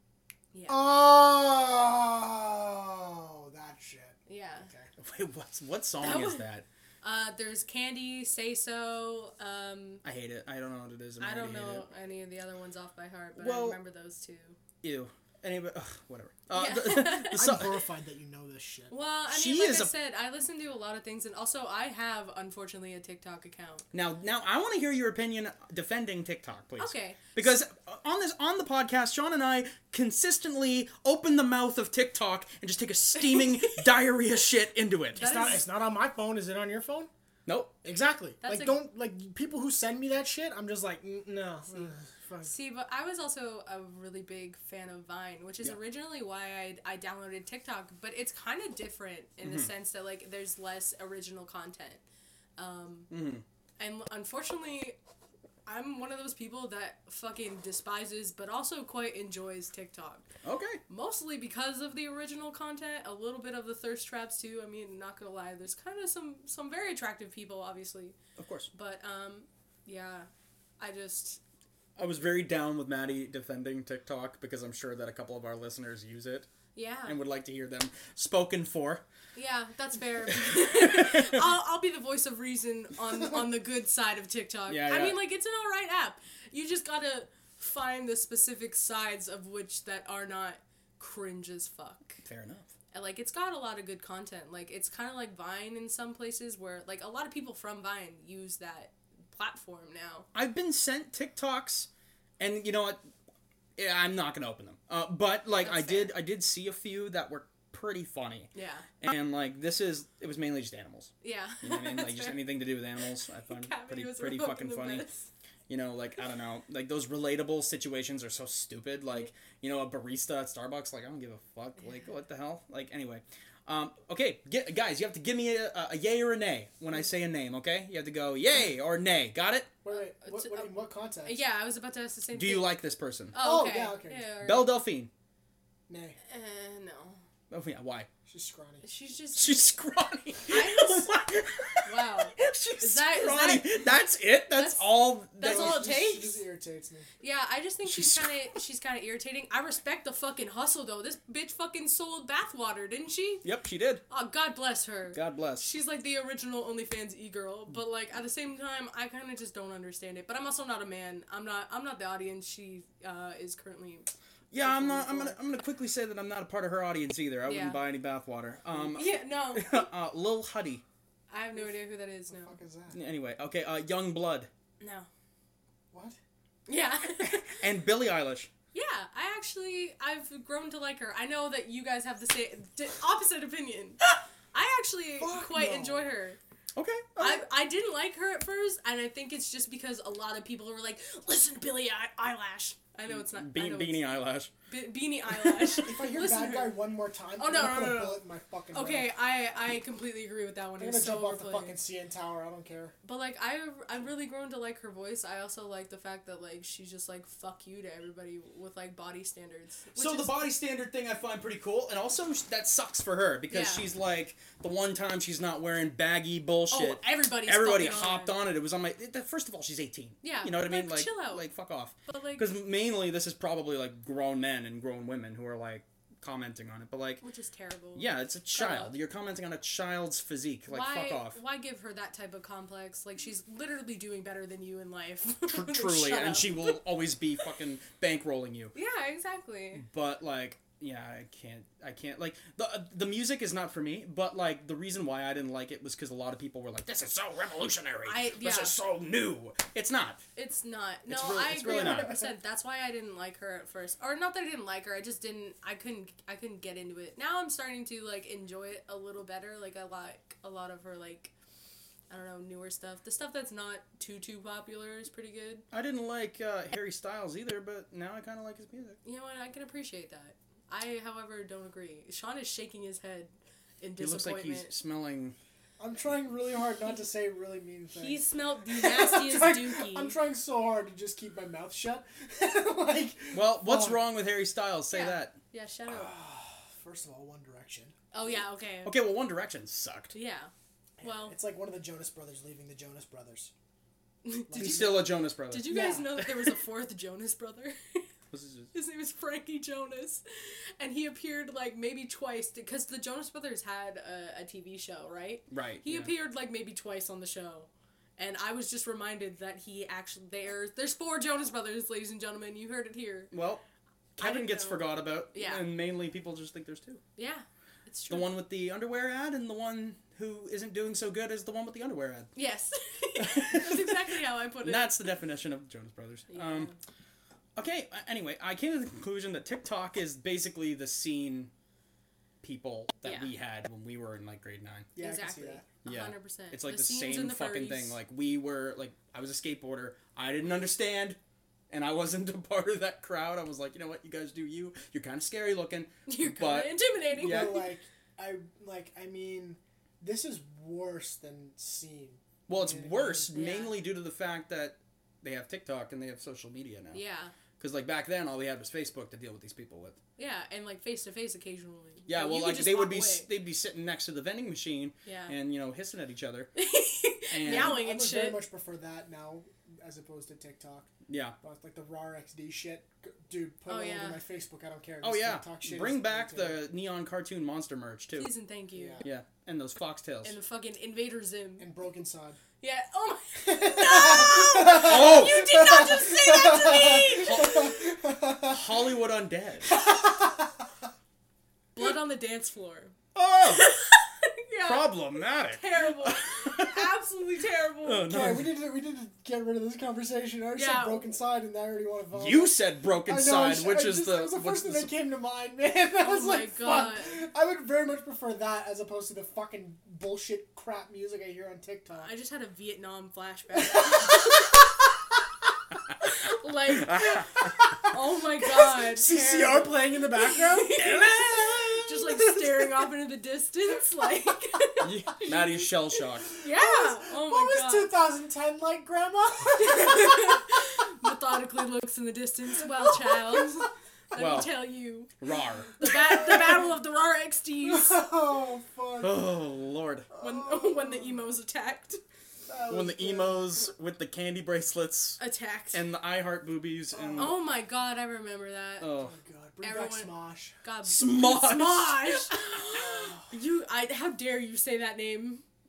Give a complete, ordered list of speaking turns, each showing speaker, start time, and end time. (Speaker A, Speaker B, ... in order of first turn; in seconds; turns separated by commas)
Speaker A: 0.5-0.9, Speaker B: 0.7-4.9, Speaker A: 4.3-4.7, Speaker C: 5.0-6.7, Speaker A: 6.0-6.4, Speaker A: 7.0-10.0, Speaker C: 10.0-11.9, Speaker A: 11.2-14.6, Speaker C: 13.4-13.8, Speaker C: 14.8-17.8, Speaker A: 16.5-17.7, Speaker B: 17.3-18.9, Speaker A: 18.9-23.9, Speaker C: 19.3-19.9, Speaker C: 23.9-35.2, Speaker A: 26.8-27.4, Speaker A: 33.4-33.8, Speaker A: 35.1-35.7, Speaker B: 35.2-37.1, Speaker C: 37.5-37.7, Speaker B: 37.8-42.5, Speaker A: 38.4-38.8, Speaker A: 42.4-52.0, Speaker C: 49.4-49.7, Speaker A: 52.6-53.1, Speaker C: 53.1-53.4, Speaker A: 53.8-55.0, Speaker A: 55.7-60.3, Speaker C: 60.4-60.8, Speaker A: 60.9-68.2, Speaker C: 68.4-68.7, Speaker A: 68.7-71.4, Speaker C: 72.0-76.5, Speaker A: 76.8-77.2, Speaker C: 77.0-79.0, Speaker A: 79.3-92.2, Speaker C: 80.5-81.4, Speaker C: 84.7-85.2, Speaker C: 92.2-92.7, Speaker A: 92.9-100.3, Speaker C: 100.3-103.0, Speaker C: 103.8-115.1, Speaker A: 105.6-106.1, Speaker A: 108.5-108.9, Speaker A: 111.2-112.5, Speaker A: 113.0-115.3, Speaker C: 115.7-129.7, Speaker B: 129.8-131.4, Speaker A: 129.9-130.7, Speaker A: 131.2-132.7, Speaker C: 132.3-133.4, Speaker A: 133.3-134.8, Speaker B: 133.4-134.3, Speaker C: 134.4-135.1, Speaker B: 135.9-136.2, Speaker A: 136.3-137.2, Speaker C: 137.5-138.1, Speaker B: 138.3-138.8, Speaker A: 138.8-139.7, Speaker C: 139.4-145.9, Speaker A: 140.5-141.2, Speaker A: 141.8-143.9, Speaker A: 144.5-146.4, Speaker B: 145.4-147.1, Speaker A: 147.2-153.4, Speaker C: 147.8-148.5, Speaker C: 153.4-154.0, Speaker A: 154.1-164.1, Speaker C: 155.1-155.7, Speaker C: 164.5-170.8, Speaker A: 164.6-165.4, Speaker A: 167.5-167.8, Speaker A: 168.9-169.9, Speaker A: 171.3-172.5, Speaker B: 172.3-173.0, Speaker C: 172.9-174.5, Speaker A: 174.8-175.1, Speaker B: 175.9-176.2, Speaker A: 176.7-177.6, Speaker C: 177.2-178.5, Speaker A: 178.7-184.0, Speaker A: 184.5-186.4, Speaker B: 185.2-186.1, Speaker C: 186.8-187.4, Speaker A: 187.2-194.1, Speaker C: 193.1-194.5, Speaker A: 194.7-196.8, Speaker B: 195.8-199.1, Speaker A: 197.4-201.8, Speaker B: 200.8-202.9, Speaker A: 203.0-210.4, Speaker C: 209.9-227.2, Speaker A: 213.5-213.9, Speaker A: 216.7-218.4, Speaker A: 220.2-221.4, Speaker A: 222.1-222.5, Speaker A: 227.2-228.9, Speaker C: 227.9-231.4, Speaker A: 230.7-236.8, Speaker C: 235.5-238.7, Speaker A: 238.8-239.9, Speaker C: 239.8-250.2, Speaker A: 248.1-248.8, Speaker A: 250.3-261.3, Speaker C: 251.1-252.2, Speaker B: 251.5-252.3, Speaker A: 262.1-265.6, Speaker C: 265.7-269.0, Speaker A: 269.1-274.7, Speaker C: 274.0-275.4, Speaker B: 275.8-284.0, Speaker A: 277.9-280.1, Speaker C: 283.3-285.4, Speaker A: 284.9-286.1, Speaker B: 285.9-287.9, Speaker A: 288.1-288.9, Speaker C: 288.9-290.1, Speaker A: 290.1-291.4, Speaker B: 291.0-293.5, Speaker A: 294.2-298.1, Speaker B: 294.5-295.1, Speaker C: 294.6-295.8, Speaker B: 295.7-296.1, Speaker C: 298.3-298.7, Speaker A: 298.7-300.2, Speaker A: 300.8-313.3, Speaker C: 305.5-306.1, Speaker C: 313.3-313.6, Speaker C: 314.2-317.0, Speaker A: 314.2-315.6, Speaker A: 317.2-318.3, Speaker C: 318.1-322.3, Speaker A: 322.4-325.1, Speaker C: 323.2-324.0, Speaker C: 324.6-326.7, Speaker A: 326.3-326.8, Speaker C: 327.6-331.5, Speaker C: 332.4-334.9, Speaker A: 333.1-333.3, Speaker B: 335.0-335.6, Speaker A: 335.0-337.9, Speaker C: 335.9-341.2, Speaker C: 341.7-347.6, Speaker A: 346.1-347.7, Speaker B: 347.2-353.3, Speaker C: 352.5-357.0, Speaker A: 353.3-353.8, Speaker A: 356.9-357.3, Speaker C: 357.6-360.0, Speaker A: 360.2-363.3, Speaker C: 362.1-366.5, Speaker A: 365.1-365.3, Speaker A: 366.6-368.4, Speaker C: 367.3-367.8, Speaker B: 367.4-370.9, Speaker C: 371.1-371.4, Speaker B: 371.4-376.6, Speaker A: 373.7-374.2, Speaker C: 375.0-378.3, Speaker A: 378.1-379.1, Speaker B: 378.8-379.0, Speaker C: 379.0-380.4, Speaker A: 380.2-381.7, Speaker B: 381.6-382.4, Speaker A: 382.6-387.7, Speaker B: 383.4-388.7, Speaker C: 384.8-385.6, Speaker C: 387.1-387.8, Speaker C: 388.4-389.8, Speaker B: 389.7-390.6, Speaker A: 391.8-392.9, Speaker C: 393.1-393.7, Speaker A: 393.4-398.1, Speaker C: 394.6-396.8, Speaker C: 397.8-398.5, Speaker B: 398.1-412.1, Speaker A: 400.6-401.1, Speaker C: 402.1-404.9, Speaker A: 406.0-407.1, Speaker A: 412.0-414.6, Speaker B: 413.7-414.6, Speaker A: 416.0-425.7, Speaker C: 416.7-417.5, Speaker B: 418.5-422.8, Speaker C: 424.8-426.3, Speaker B: 426.3-430.6, Speaker A: 426.3-427.9, Speaker A: 429.6-435.1, Speaker B: 432.9-433.6, Speaker C: 434.2-434.5, Speaker C: 435.2-435.8, Speaker A: 435.8-438.0, Speaker B: 435.8-436.7, Speaker B: 437.6-439.4, Speaker C: 439.0-440.1, Speaker B: 440.1-441.2, Speaker A: 440.2-442.0, Speaker B: 442.5-443.7, Speaker C: 442.7-445.2, Speaker A: 445.2-445.8, Speaker C: 445.7-447.4, Speaker B: 446.9-447.4, Speaker A: 447.2-448.9, Speaker C: 448.8-449.1, Speaker B: 448.9-450.5, Speaker A: 449.6-450.1, Speaker A: 450.6-455.4, Speaker C: 450.8-452.4, Speaker B: 452.6-453.2